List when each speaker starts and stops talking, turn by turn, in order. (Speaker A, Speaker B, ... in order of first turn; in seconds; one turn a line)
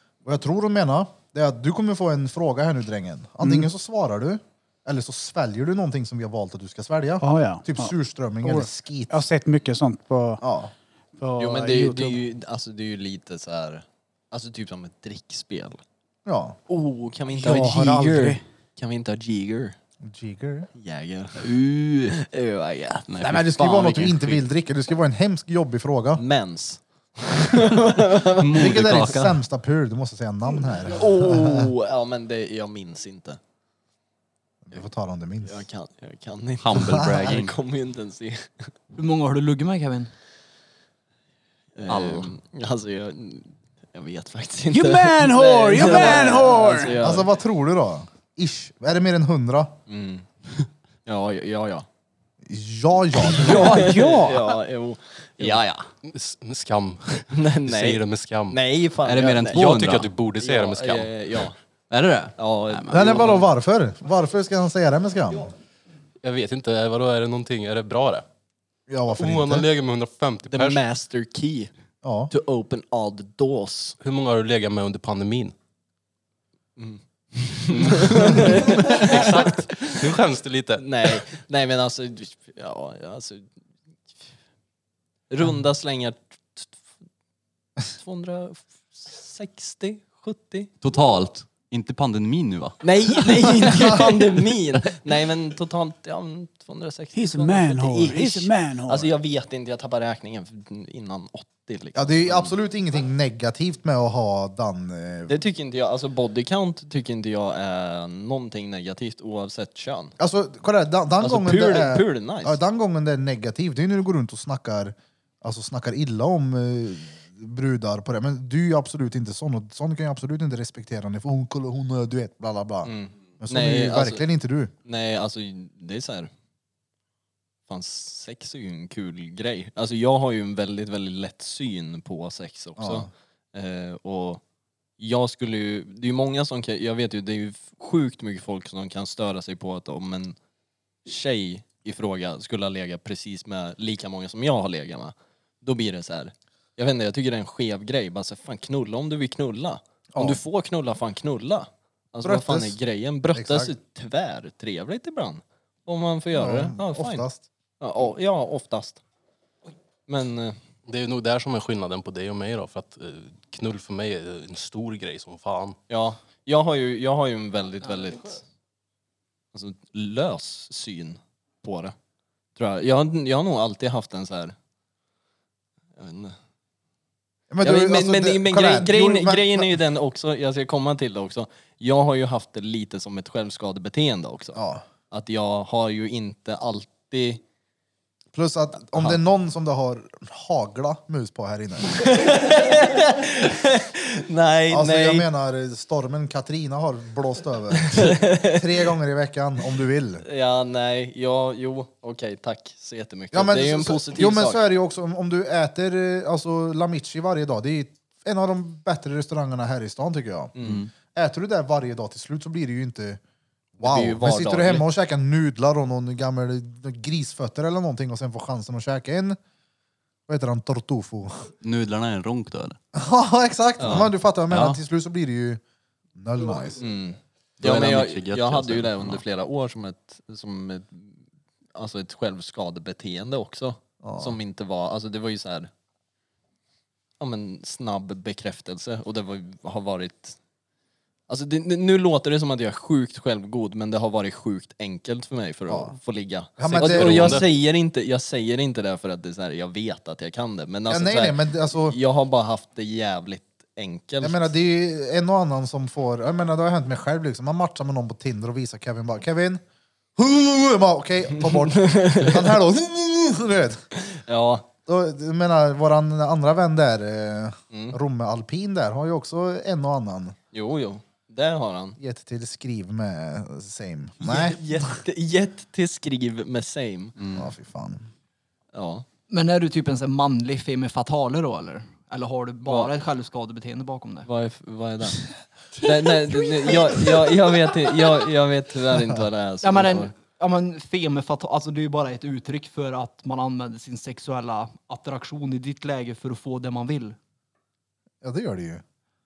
Speaker A: 0.2-9.2
Speaker B: 3.4-3.7
Speaker B: 7.2-10.4
Speaker A: 10.4-10.7
Speaker B: 11.2-12.2
Speaker C: 11.4-15.8
Speaker A: 16.2-16.6
Speaker C: 16.7-19.8
Speaker B: 17.3-18.4
Speaker A: 20.0-20.7
Speaker C: 20.7-21.5
Speaker D: 21.4-22.1
Speaker C: 22.1-24.4
Speaker D: 23.1-23.4
Speaker A: 23.2-26.2
Speaker C: 26.2-29.3
Speaker A: 28.5-31.7
Speaker D: 28.6-29.2
Speaker C: 30.9-33.4
Speaker A: 34.6-35.6
Speaker C: 35.4-38.7
Speaker D: 36.6-37.5
Speaker A: 36.7-37.4
Speaker E: 38.9-40.1
Speaker C: 41.8-47.3
Speaker B: 44.7-46.9
Speaker A: 45.8-46.1
Speaker A: 47.0-49.7
Speaker C: 49.9-50.2
Speaker C: 51.0-51.9
Speaker A: 52.5-53.9
Speaker C: 53.3-55.6
Speaker B: 53.4-54.5
Speaker D: 55.4-55.9
Speaker F: 56.0-58.6
Speaker C: 57.3-59.8
Speaker D: 59.0-60.1
Speaker F: 59.5-61.1
Speaker C: 60.4-61.6
Speaker D: 61.9-63.3
Speaker C: 62.4-63.5
Speaker A: 62.9-65.5
Speaker F: 66.2-68.2
Speaker A: 68.9-69.7
Speaker F: 69.2-70.8
Speaker C: 70.5-71.7
Speaker A: 72.0-72.3
Speaker C: 72.3-74.0
Speaker F: 74.0-75.5
Speaker C: 76.8-80.2
Speaker F: 77.7-81.2
Speaker C: 80.8-83.5
Speaker C: 85.3-86.8
Speaker C: 87.8-90.7
Speaker D: 90.8-94.0
Speaker C: 92.8-102.5
Speaker B: 97.1-99.1
Speaker A: 101.9-105.4
Speaker C: 105.3-110.1
Speaker A: 110.2-124.7
Speaker C: 111.2-112.6
Speaker C: 122.8-124.2
Speaker C: 124.8-126.3
Speaker C: 127.7-134.4
Speaker A: 132.8-133.1
Speaker C: 135.0-140.3
Speaker C: 141.1-157.3
Speaker A: 150.1-150.4
Speaker A: 152.2-152.8
Speaker A: 153.3-153.7
Speaker A: 156.3-157.4
Speaker C: 157.8-159.0
Speaker C: 160.1-160.6
Speaker F: 160.9-165.8
Speaker C: 165.9-168.4
Speaker C: 169.5-171.9
Speaker C: 172.6-174.5
Speaker C: 176.0-176.3
Speaker A: 177.5-179.8
Speaker C: 177.6-184.6
Speaker A: 184.6-184.8
Speaker C: 185.1-187.4
Speaker A: 188.3-192.1
Speaker C: 191.9-195.3
Speaker A: 194.7-200.2
Speaker C: 197.9-198.6
Speaker C: 200.2-204.6
Speaker A: 203.3-210.5
Speaker C: 210.6-210.8
Speaker D: 210.6-210.9
Speaker A: 211.1-213.2
Speaker A: 213.8-219.4
Speaker C: 213.8-214.8
Speaker A: 220.3-221.5
Speaker D: 221.6-222.8
Speaker A: 222.9-225.6
Speaker C: 223.8-224.1
Speaker D: 223.8-224.8
Speaker A: 226.2-226.8
Speaker C: 226.8-231.2
Speaker D: 227.6-229.2
Speaker C: 231.7-235.7
Speaker A: 234.0-234.4
Speaker C: 237.2-240.4
Speaker C: 241.3-254.5
Speaker A: 245.7-245.9
Speaker A: 246.6-247.4
Speaker F: 246.7-247.4
Speaker A: 250.9-252.0
Speaker A: 254.2-259.6
Speaker A: 260.2-263.8
Speaker C: 261.4-262.5
Speaker C: 263.9-264.6
Speaker A: 264.9-270.4
Speaker C: 267.7-268.0
Speaker C: 270.5-272.0
Speaker A: 272.0-274.8
Speaker C: 274.2-277.1
Speaker D: 277.2-277.5
Speaker A: 277.3-278.1
Speaker C: 278.7-279.0
Speaker E: 279.3-284.3
Speaker C: 282.6-282.9
Speaker C: 284.2-285.2
Speaker C: 285.8-290.1
Speaker E: 289.6-297.1
Speaker A: 298.2-298.8